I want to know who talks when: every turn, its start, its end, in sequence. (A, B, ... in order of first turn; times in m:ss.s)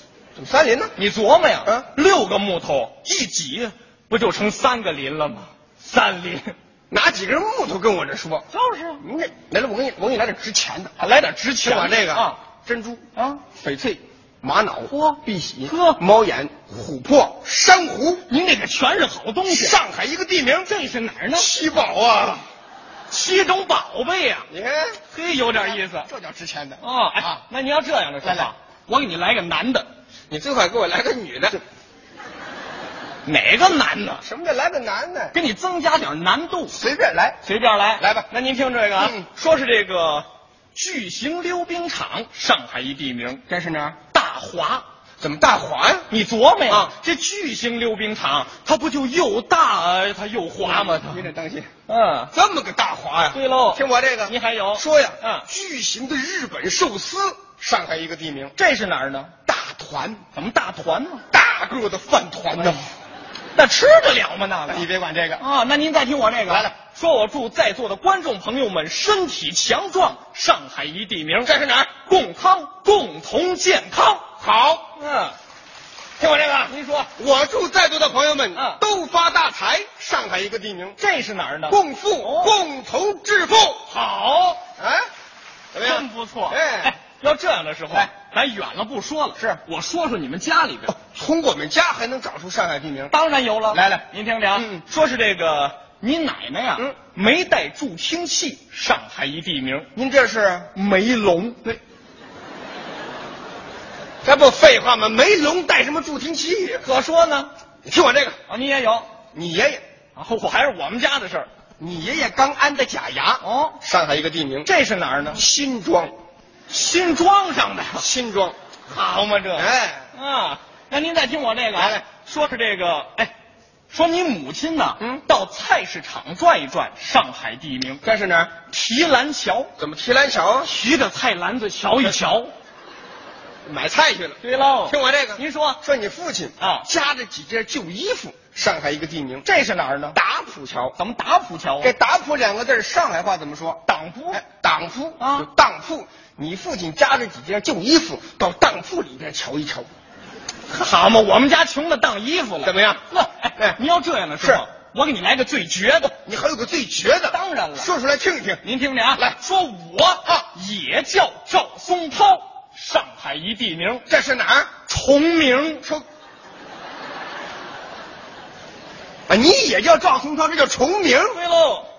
0:00.4-0:00.9 A
0:01.0-0:06.5 B
0:06.9-0:08.4 A
0:08.5-0:09.0 B
0:09.0-0:10.9 A
0:11.0-0:12.4 B
0:11.6-0:13.0 A
0:13.2-0:13.4 B
0:13.5-0:18.2 A
0:14.9-0:16.0 B
0:18.3-0:19.8 B
0:19.5-0:20.7 A
0:20.6-0:21.5 B
0:21.3-0:22.4 A
0:23.1-0:24.5 B
0:24.5-0:25.0 A
0:25.1-0:26.1 B
0:25.6-0:27.4 A
0:26.8-0:29.9 B
0:28.2-0:28.5 A
0:30.3-0:31.6 A
0:33.2-0:34.2 B
0:34.2-0:35.3 A
0:35.3-0:36.7 B
0:36.7-0:37.4 A
0:37.4-0:43.4 B
0:38.0-0:38.3 A
0:38.9-0:39.2 A
0:43.5-0:44.0 A
0:44.1-0:44.8 B
0:45.2-0:46.1 A
0:46.1-0:51.3 B
0:50.6-0:51.7 A
0:51.9-0:52.3 B
0:52.3-0:58.5 A
0:53.3-0:55.4 B
0:58.6-0:59.3 B
0:59.4-1:00.2 A
1:00.3-1:01.2 B
1:01.3-1:02.8 A
1:02.6-1:02.8 B
1:03.6-1:04.9 B
1:04.7-1:05.4 A
1:05.4-1:11.5 B
1:06.5-1:06.7 A
1:11.4-1:12.0 A
1:12.0-1:14.3 B
1:14.4-1:14.9 A
1:15.0-1:15.3 B
1:16.2-1:21.0 A
1:16.7-1:17.1 B
1:21.0-1:22.5 B
1:21.7-1:23.8 A
1:23.9-1:24.6 B
1:24.8-1:25.1 A
1:25.7-1:26.9 A
1:25.8-1:30.9 B
1:30.9-1:33.1 A
1:33.1-1:39.9 B
1:33.7-1:34.8 A
1:40.0-1:40.7 A
1:40.7-1:41.8 B
1:44.2-1:46.8 A
1:46.8-1:47.5 B
1:47.8-1:48.4 A
1:48.5-1:49.0 B
1:49.3-1:49.8 A
1:50.2-1:51.5 B
1:51.8-1:54.7 A
1:53.4-1:53.8 B
1:54.6-1:55.4 B
1:55.3-1:56.1 A
1:56.7-1:58.0 B
1:58.0-1:58.5 A
1:58.9-2:03.3 B
1:59.6-2:00.1 A
2:01.7-2:02.0 A
2:03.9-2:08.0 B
2:08.0-2:08.6 A
2:08.7-2:09.7 B
2:09.8-2:10.7 A
2:10.6-2:12.5 B
2:13.6-2:19.4 A
2:14.4-2:15.8 B
2:16.6-2:16.8 B
2:19.4-2:20.2 B
2:20.1-2:21.0 A
2:21.0-2:21.9 B
2:21.8-2:29.9 A
2:23.9-2:24.4 B
2:25.2-2:25.4 B
2:30.7-2:36.2 B
2:32.6-2:33.0 A
2:36.2-2:38.6 A
2:37.3-2:37.9 B
2:38.6-2:44.0 B
2:44.1-2:44.8 A
2:44.9-2:45.8 B
2:49.3-2:51.4 A
2:51.3-2:51.9 B